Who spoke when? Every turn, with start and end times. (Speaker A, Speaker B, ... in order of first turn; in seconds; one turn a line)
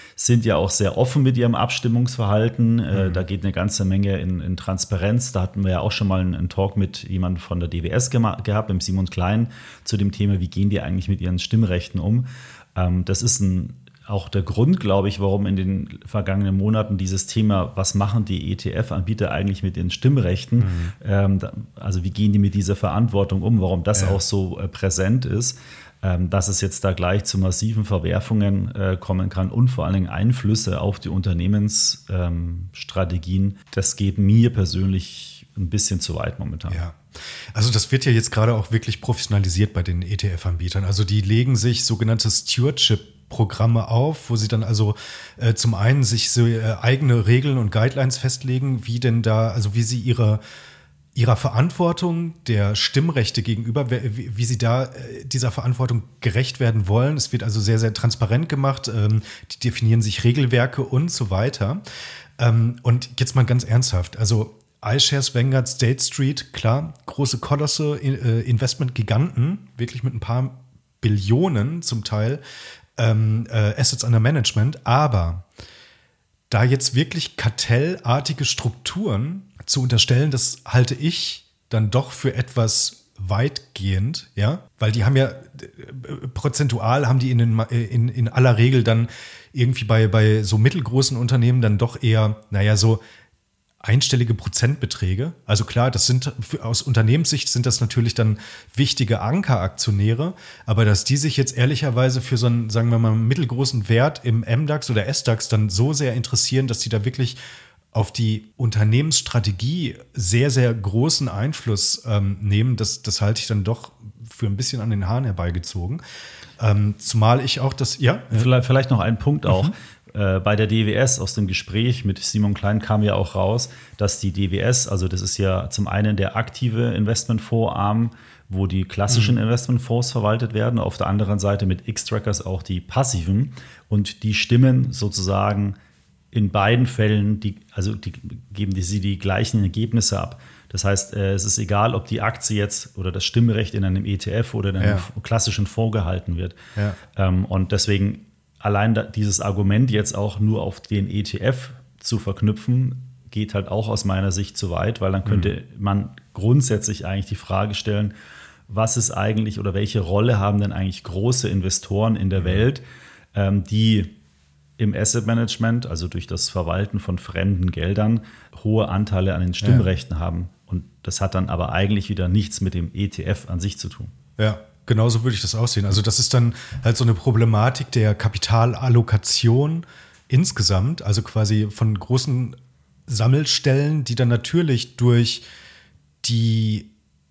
Speaker A: 0.2-36.8
Speaker B: 2.9-3.2
Speaker B: 20.6-20.9
Speaker B: 23.9-24.2
Speaker B: 36.7-37.0
Speaker B: 37.5-50.4
Speaker B: 51.1-61.8
Speaker B: 62.4-72.4
Speaker B: 73.0-75.5
Speaker B: 76.5-93.0
Speaker B: 93.8-107.4
Speaker B: 107.9-116.0
Speaker B: 116.6-118.5
Speaker A: 118.3-135.8
Speaker B: 129.1-129.3
Speaker A: 136.3-146.6
Speaker B: 144.8-145.1
Speaker A: 147.1-158.1
Speaker B: 155.2-155.5
Speaker A: 158.7-162.8
Speaker A: 163.3-164.1
Speaker A: 164.8-174.1
Speaker B: 169.6-169.9
Speaker B: 174.4-182.6
Speaker B: 183.1-185.4
Speaker B: 186.2-186.9